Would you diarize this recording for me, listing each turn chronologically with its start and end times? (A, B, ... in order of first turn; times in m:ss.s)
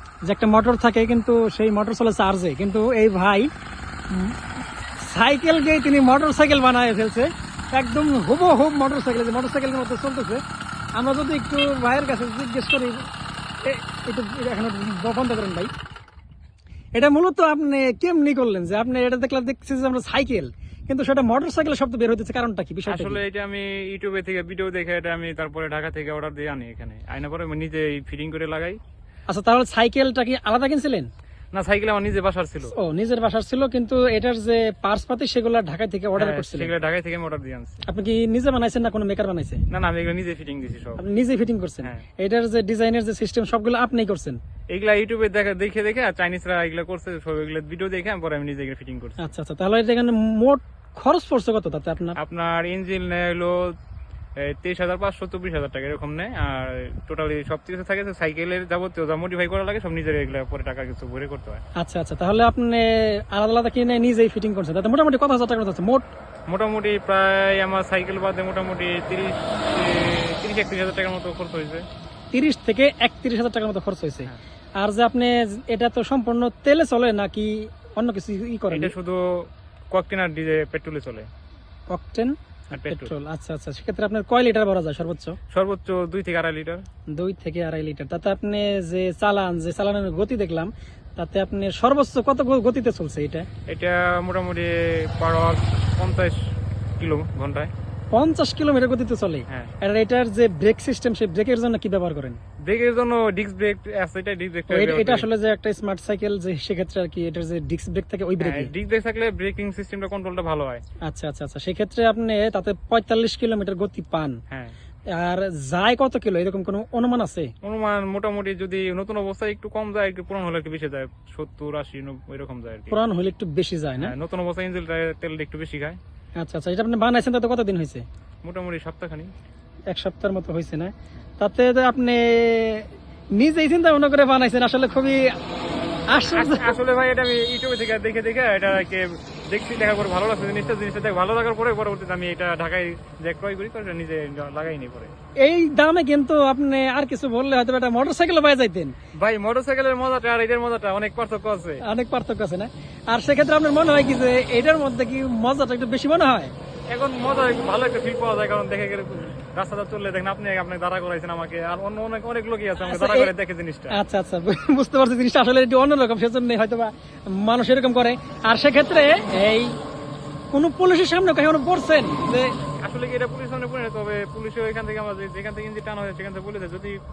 0:00.2-0:03.5 A
0:04.1-0:04.4 A
0:05.0-0:10.4 A
0:11.0-0:13.0 A
0:13.6-0:15.7 A
0:17.0-0:23.2 A
0:22.8-0:28.8 B
0:29.3-0:31.1 A
0:31.5-0:32.7 B
0:32.7-0:36.7 A
0:36.2-0:37.8 B
0:37.9-0:39.6 A
0:39.7-0:41.0 B
0:41.0-0:44.4 A
0:44.7-0:49.2 B
0:49.2-0:52.2 A
0:52.2-0:53.7 B
0:54.4-1:01.6 B
1:01.8-1:06.0 A
1:06.5-1:11.8 B
1:12.3-1:18.9 A
1:18.7-1:21.3 B
1:21.9-1:25.4 A
1:22.7-1:23.1 B
1:25.5-1:26.8 B
1:27.1-1:33.4 A
1:33.7-1:36.4 B
1:37.0-1:37.7 B
1:38.1-1:42.4 A
1:42.7-1:45.3 B
1:44.7-1:48.7 A
1:48.4-1:50.8 B
1:51.1-1:54.4 A
1:55.2-1:57.5 A
1:57.6-2:03.0 B
2:02.9-2:04.1 A
2:04.0-2:06.0 B
2:06.4-2:08.0 A
2:08.4-2:09.3 B
2:09.9-2:15.3 A
2:16.1-2:16.8 A
2:16.3-2:25.1 B
2:25.4-2:28.9 A
2:29.2-2:31.8 B
2:31.8-2:36.5 A
2:36.9-2:44.0 B
2:42.8-2:43.3 A
2:43.9-2:49.8 A
2:50.5-2:52.6 A
2:52.8-2:57.0 B